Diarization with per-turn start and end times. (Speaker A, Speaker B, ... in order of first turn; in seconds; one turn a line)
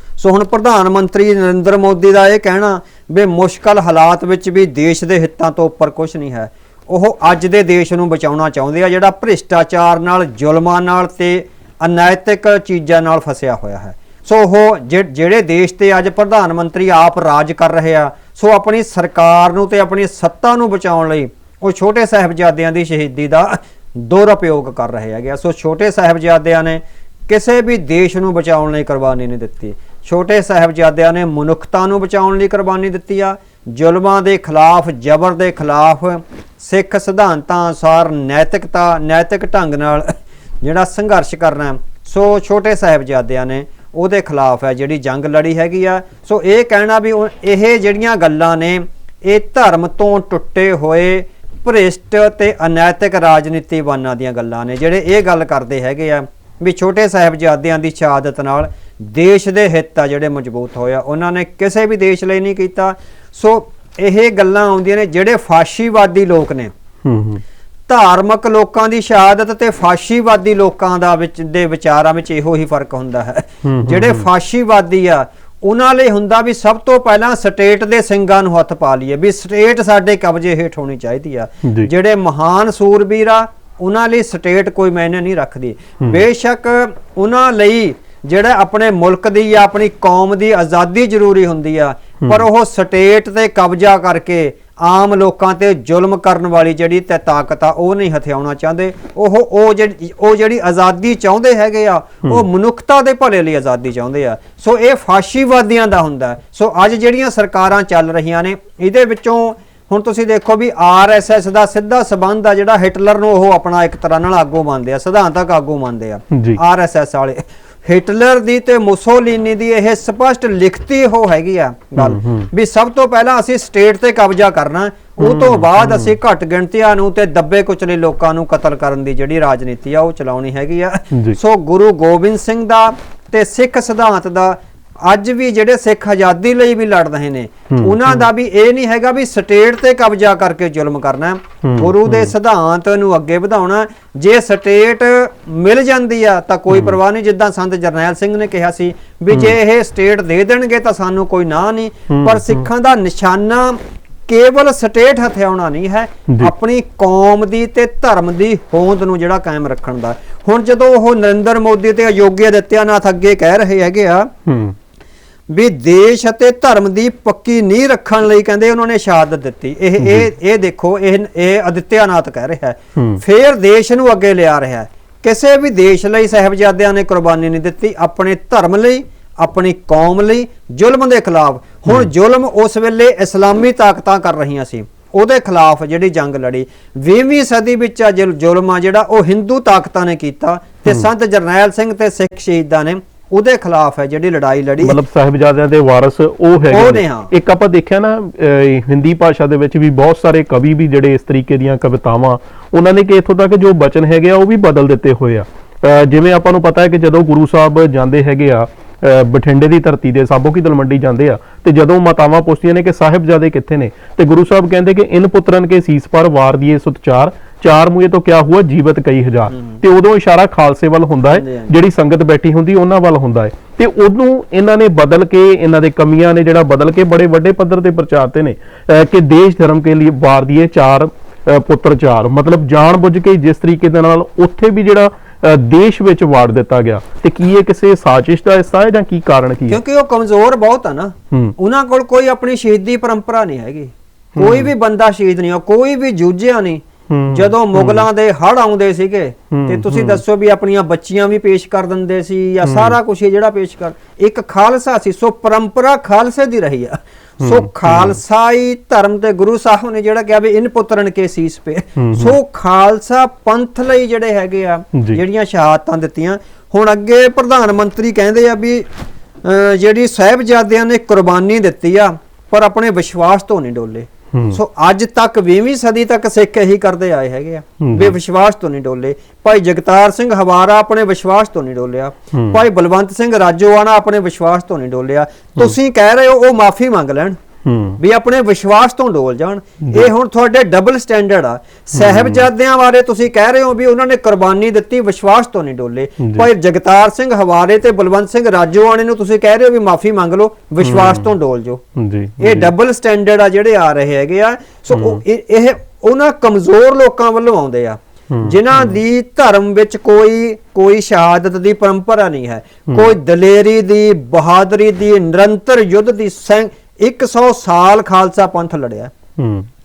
Speaker A: 0.2-66.7
Speaker B: 67.0-67.4
Speaker A: 67.9-164.3
Speaker B: 73.6-74.3
Speaker B: 81.6-81.9
Speaker B: 116.3-116.6
Speaker B: 122.0-122.5
Speaker B: 125.2-126.2
Speaker B: 137.7-138.2
Speaker B: 141.6-142.3
Speaker B: 146.7-147.0
Speaker B: 152.1-152.6
Speaker B: 164.5-164.8
Speaker A: 165.5-195.0
Speaker B: 170.0-170.3
Speaker B: 173.0-173.2
Speaker B: 194.8-239.8
Speaker A: 196.7-197.3
Speaker A: 219.5-219.8
Speaker A: 221.3-221.7
Speaker A: 239.7-268.9
Speaker B: 244.4-244.7
Speaker B: 247.1-248.1
Speaker B: 249.5-250.2
Speaker B: 252.6-253.0
Speaker B: 257.4-258.2
Speaker B: 262.0-262.4
Speaker B: 264.9-265.2
Speaker A: 269.4-287.4
Speaker B: 274.3-274.6
Speaker B: 277.8-278.2
Speaker B: 282.3-282.6
Speaker B: 287.6-288.0
Speaker A: 288.0-301.8
Speaker B: 289.8-290.1
Speaker B: 291.9-292.5
Speaker B: 296.2-296.5
Speaker B: 300.8-301.3
Speaker B: 302.0-302.7
Speaker A: 302.4-319.1
Speaker B: 304.9-305.2
Speaker B: 308.3-309.0
Speaker B: 319.4-319.7